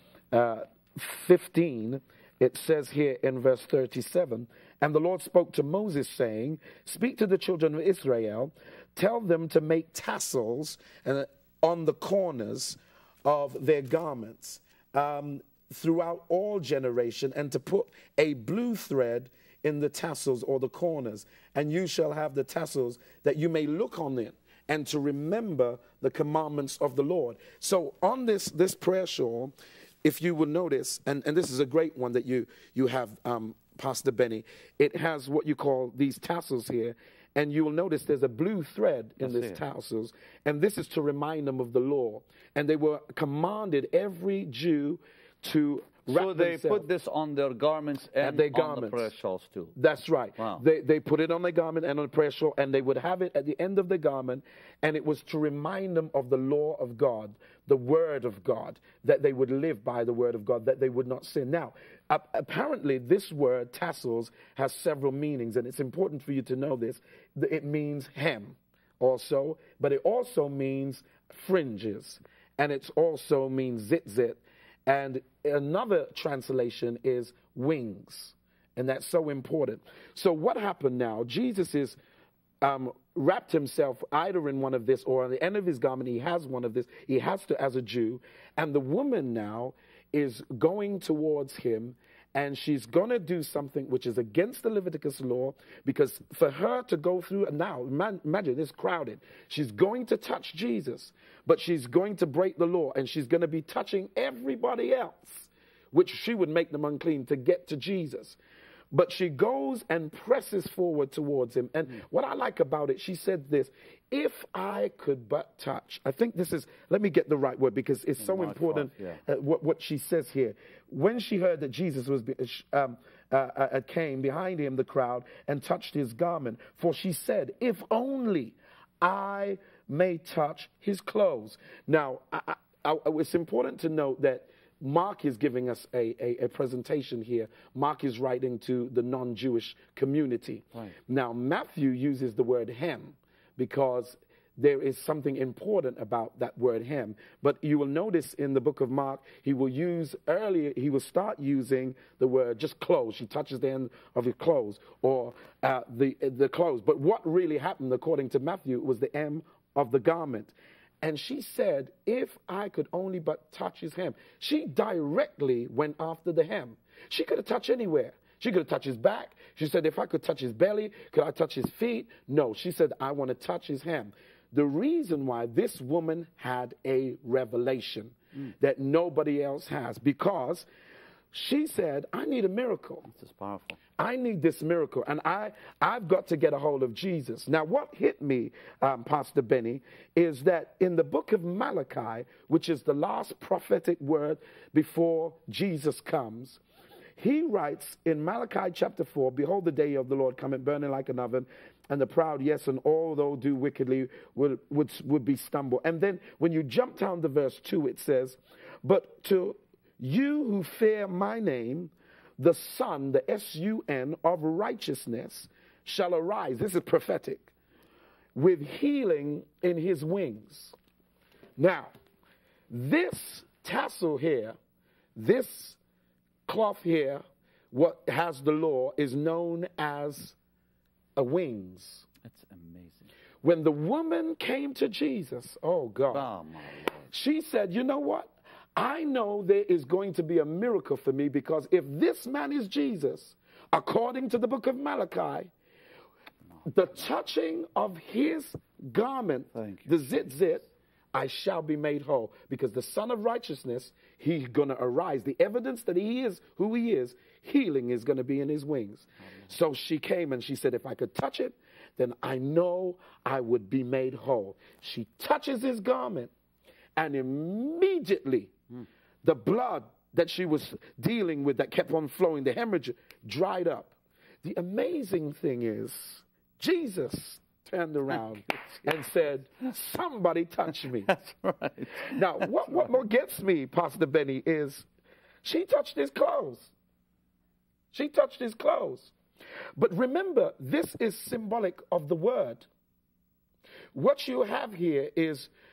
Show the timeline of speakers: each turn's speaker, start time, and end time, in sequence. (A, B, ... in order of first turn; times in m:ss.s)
0:00.3-0:46.9 A
0:39.2-0:39.6 B
0:46.1-0:49.8 B
0:48.2-0:49.0 A
0:49.8-1:22.0 A
0:50.4-0:50.6 B
1:22.6-1:48.4 A
1:48.9-3:00.6 A
1:58.2-1:59.2 B
3:01.3-3:03.1 A
3:03.1-3:03.8 B
3:04.0-3:16.6 A
3:17.2-3:37.5 A
3:38.3-3:40.7 A
3:41.6-3:41.9 A
3:42.7-3:44.6 A
3:45.2-3:45.8 A
3:46.5-3:50.3 A
3:51.2-3:52.1 A
3:52.2-3:53.1 B
3:53.4-3:56.3 A
3:56.1-3:57.1 B
3:57.1-4:05.5 A
4:06.6-4:26.3 A
4:09.5-4:09.9 B
4:27.0-4:28.6 A
4:29.2-4:41.2 A
4:41.1-4:42.8 B
4:42.0-4:44.8 A
4:45.4-4:46.7 A
4:47.9-4:49.1 A
4:49.8-4:52.6 A
4:53.9-4:55.5 A